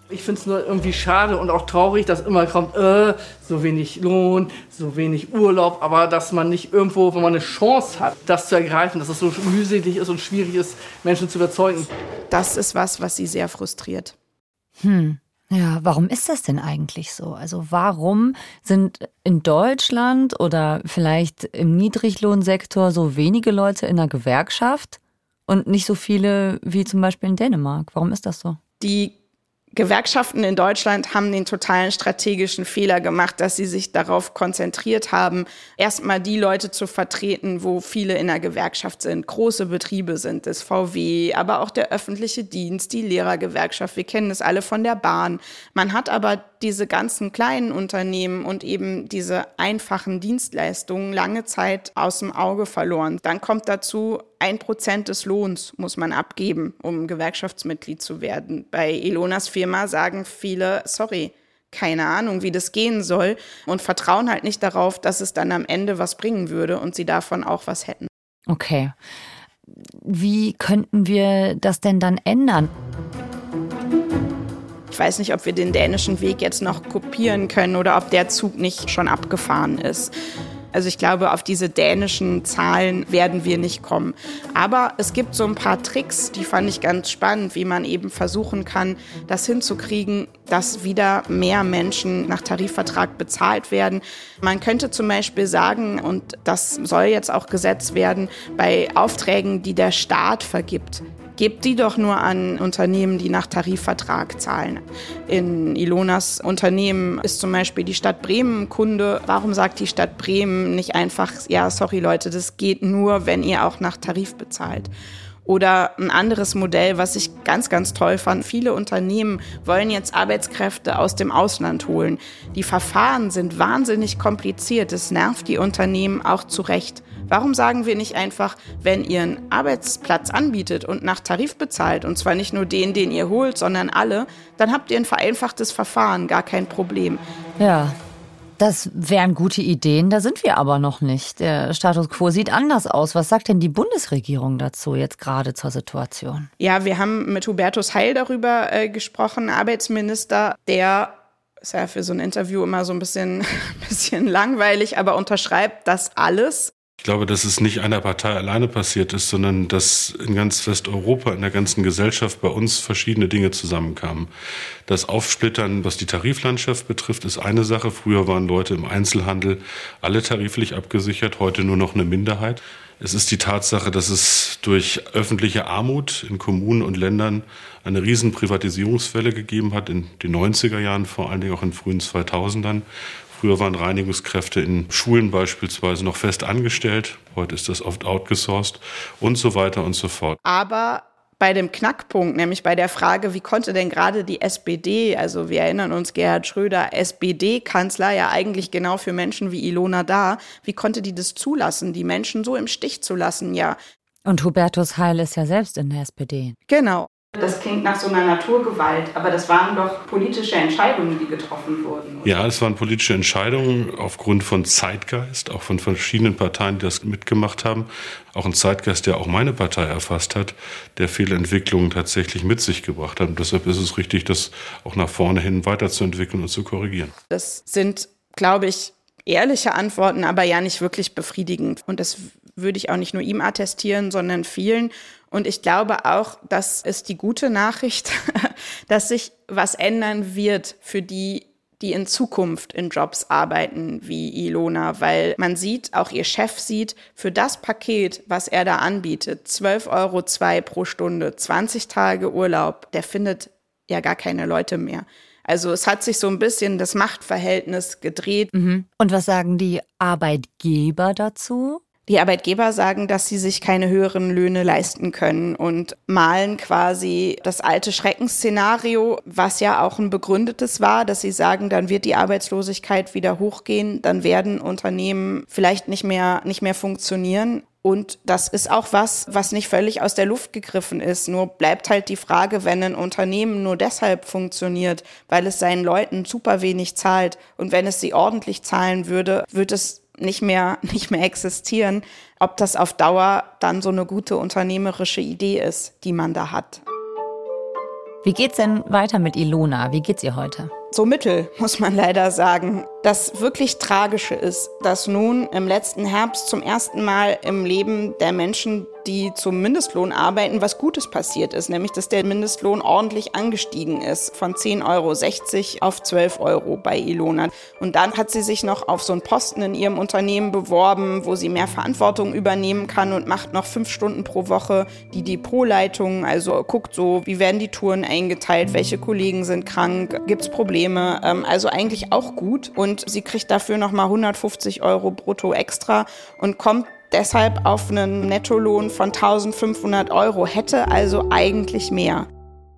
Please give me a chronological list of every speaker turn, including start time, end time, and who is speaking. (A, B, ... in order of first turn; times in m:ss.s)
0:00.1-0:11.9 A
0:12.3-0:14.1 B
0:14.8-0:28.6 C
0:28.8-0:29.1 B
0:29.7-1:08.1 B
1:08.5-1:08.9 C
1:09.8-1:12.7 C
1:14.9-1:20.1 B
1:20.7-1:54.9 B
1:55.4-2:17.2 B
2:17.6-2:18.0 C
2:18.6-2:26.5 C
2:26.6-2:36.7 B
2:37.0-2:44.3 D
2:44.9-3:10.4 D
3:10.4-3:23.8 B
3:24.2-3:26.6 C
3:26.7-3:32.3 B
3:32.2-3:47.1 D
3:47.3-4:18.5 B
4:18.5-4:21.8 C
4:22.1-4:56.8 B
4:58.2-5:00.7 C
5:00.9-5:42.3 B